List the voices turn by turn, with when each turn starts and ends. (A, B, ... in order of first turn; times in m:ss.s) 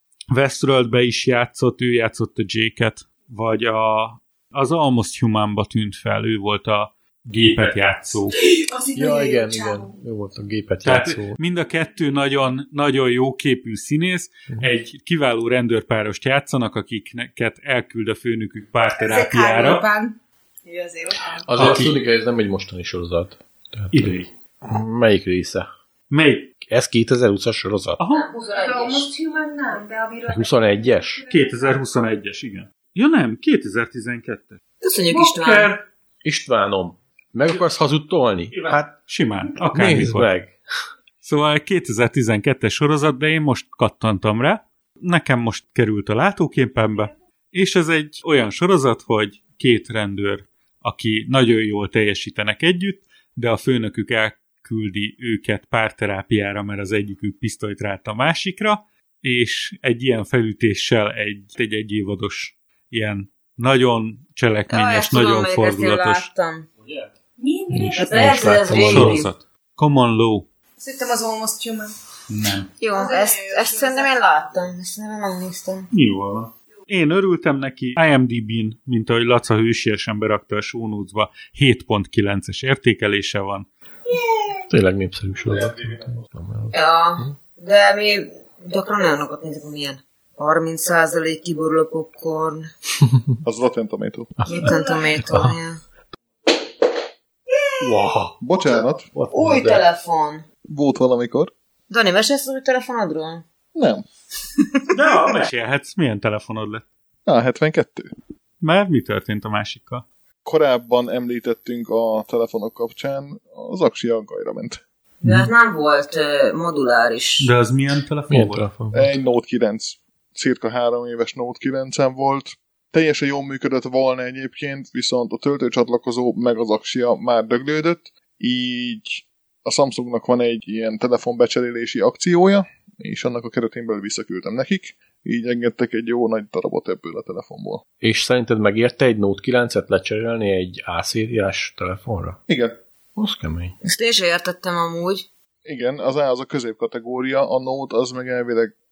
0:00.3-0:08.4 A
0:08.4-0:10.0 B
0:09.0-0:11.4 C
0:10.8-0:19.9 A
0:19.0-0:21.7 B
0:21.4-0:25.7 C
0:21.6-0:22.0 A
0:23.9-0:24.3 A
0:26.1-0:26.5 A
0:26.6-0:28.0 C
0:28.0-0:28.3 A
0:28.1-0:29.1 D
0:28.5-0:31.7 B
0:30.3-0:31.2 C
0:31.3-0:35.8 A
0:34.8-0:35.7 D
0:36.2-0:38.9 C
0:38.5-0:40.3 A
0:39.7-0:40.6 C
0:41.2-1:06.3 A
1:04.7-1:06.7 D
1:07.4-1:08.6 B
1:07.7-1:09.2 C
1:08.0-1:09.3 D
1:08.7-1:10.5 A
1:10.8-1:12.0 B
1:12.3-1:12.7 A
1:12.8-1:15.9 D
1:13.0-1:14.1 B
1:15.9-1:23.7 A
1:24.7-1:27.3 C
1:25.6-1:26.0 E
1:26.7-1:32.7 D
1:33.0-1:33.4 C
1:33.4-1:34.4 E
1:34.4-1:35.6 C
1:34.5-1:35.8 D
1:34.6-1:35.0 B
1:37.8-1:38.3 A
1:38.4-1:39.1 E
1:39.1-1:39.8 C
1:39.3-1:40.4 D
1:40.7-1:41.5 E
1:41.9-1:43.4 D
1:43.8-1:44.0 E
1:44.9-1:46.8 A
1:47.3-1:48.1 E
1:48.6-1:50.0 A
1:50.4-1:54.8 E
1:55.2-1:57.5 D
1:55.2-1:55.5 A
1:57.4-1:58.6 A
1:58.3-1:59.2 C
1:58.9-2:17.8 E
2:18.0-2:22.4 C
2:22.5-2:22.8 E
2:23.2-2:23.8 C
2:23.8-2:25.3 D
2:25.6-2:28.7 E